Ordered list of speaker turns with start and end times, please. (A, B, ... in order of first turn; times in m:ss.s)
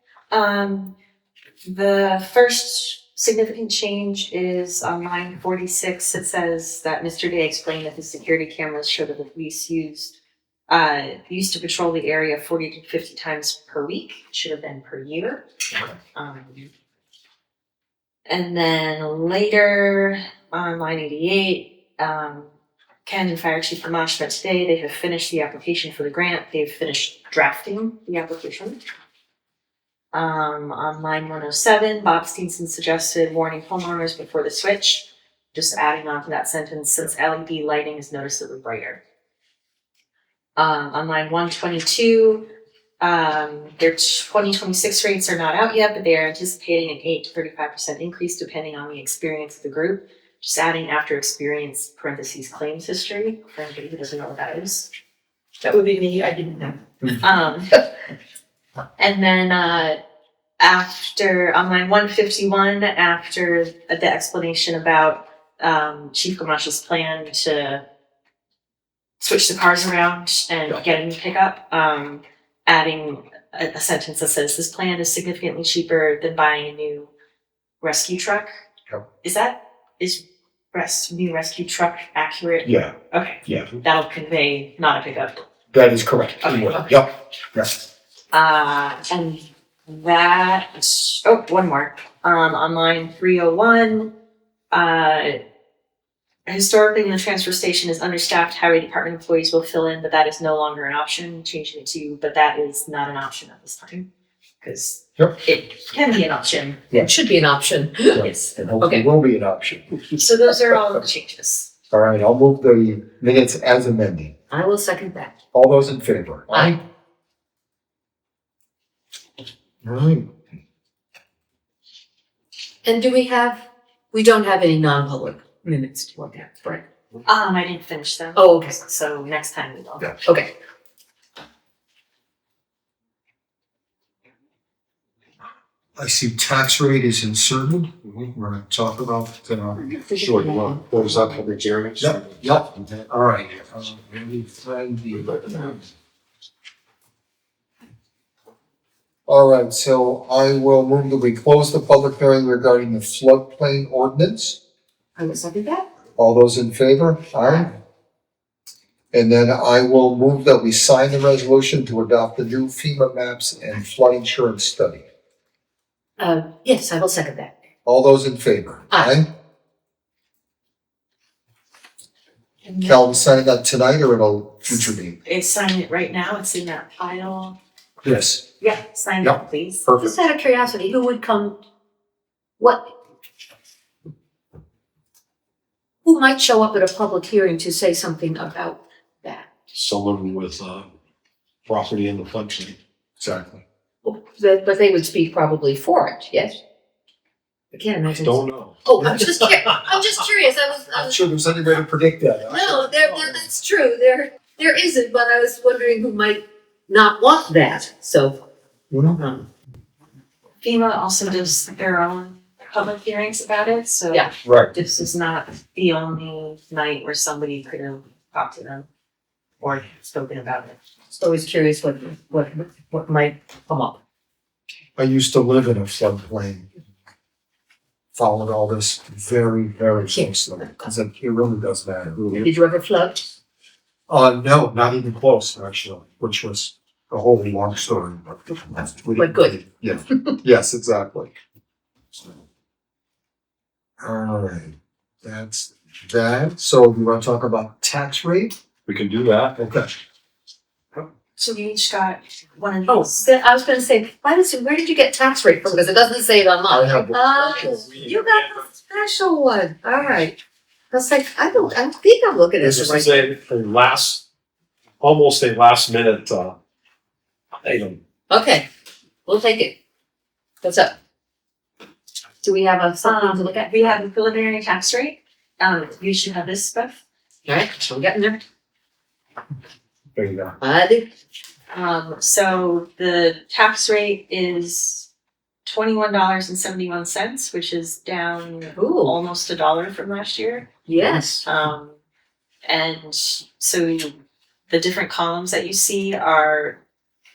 0:00.3-0:00.9 A
0:01.6-0:10.1 A
0:10.7-0:15.4 A
0:16.1-0:16.7 A
0:18.3-0:22.5 A
0:23.0-0:28.8 A
0:30.1-0:39.0 A
0:40.6-0:42.5 A
0:43.0-0:54.9 A
0:55.6-0:56.8 B
0:57.1-0:57.7 A
0:59.0-1:00.0 A
1:00.6-1:07.8 A
1:09.2-1:17.1 A
1:17.8-1:18.5 A
1:19.2-1:25.4 A
1:22.6-1:22.9 C
1:23.4-1:23.7 C
1:25.7-1:27.7 C
1:26.4-1:26.9 A
1:28.3-1:34.1 A
1:34.7-1:35.4 A
1:36.5-1:44.1 A
1:44.6-1:46.8 A
1:46.9-1:48.2 B
1:48.1-1:50.0 C
1:48.1-1:48.5 A
1:48.8-1:49.1 B
1:50.2-1:51.7 A
1:51.9-1:54.3 C
1:54.5-1:55.3 B
1:55.5-1:56.8 C
1:56.5-1:56.8 B
1:59.8-2:00.3 C
2:02.8-2:06.8 B
2:07.2-2:10.1 A
2:08.3-2:08.8 B
2:10.2-2:10.5 B
2:16.0-2:19.8 C
2:18.0-2:18.3 D
2:19.8-2:21.5 B
2:20.2-2:23.0 D
2:22.0-2:25.8 C
2:29.3-2:34.6 C
2:35.2-2:35.9 B
2:36.2-2:37.7 C
2:37.4-2:37.7 B
2:39.1-2:45.0 C
2:46.2-2:47.5 B
2:47.8-2:49.3 C
2:52.6-2:53.3 A
2:52.8-2:55.2 C
2:55.2-2:57.6 A
2:58.0-2:58.4 C
2:58.6-2:59.8 A
2:59.2-3:00.2 C
3:00.0-3:01.6 B
3:02.6-3:02.9 B
3:06.0-3:09.5 B
3:09.7-3:10.9 D
3:11.7-3:12.8 D
3:13.2-3:13.6 C
3:14.0-3:16.6 B
3:17.7-3:21.2 B
3:18.0-3:18.8 D
3:20.9-3:23.4 C
3:22.4-3:28.4 B
3:28.9-3:29.2 C
3:29.1-3:29.5 B
3:30.6-3:38.8 A
3:34.4-3:34.7 C
3:39.6-3:40.8 A
3:41.1-3:44.0 B
3:45.0-3:46.7 C
3:48.1-3:52.3 C
3:50.0-3:50.9 B
3:52.2-3:52.5 D
3:52.4-3:53.3 B
3:54.1-4:01.3 C
3:59.1-3:59.6 B
4:04.0-4:08.5 C
4:08.8-4:09.6 D
4:09.6-4:09.9 C
4:11.4-4:13.3 A
4:12.9-4:20.4 B
4:16.7-4:17.9 C
4:17.7-4:18.6 D
4:20.9-4:23.3 B
4:22.6-4:24.2 D
4:25.0-4:26.6 D
4:27.6-4:28.0 D
4:28.3-4:28.7 B
4:29.2-4:29.8 B
4:30.6-4:30.9 B
4:32.4-4:33.7 B
4:33.0-4:37.0 A
4:37.4-4:38.4 B
4:40.1-4:40.6 C
4:40.6-4:41.1 B
4:41.7-4:45.1 A
4:45.6-4:50.7 A
4:48.7-4:49.2 B
4:50.9-4:51.4 B
4:51.4-4:52.0 A
4:52.6-4:56.8 A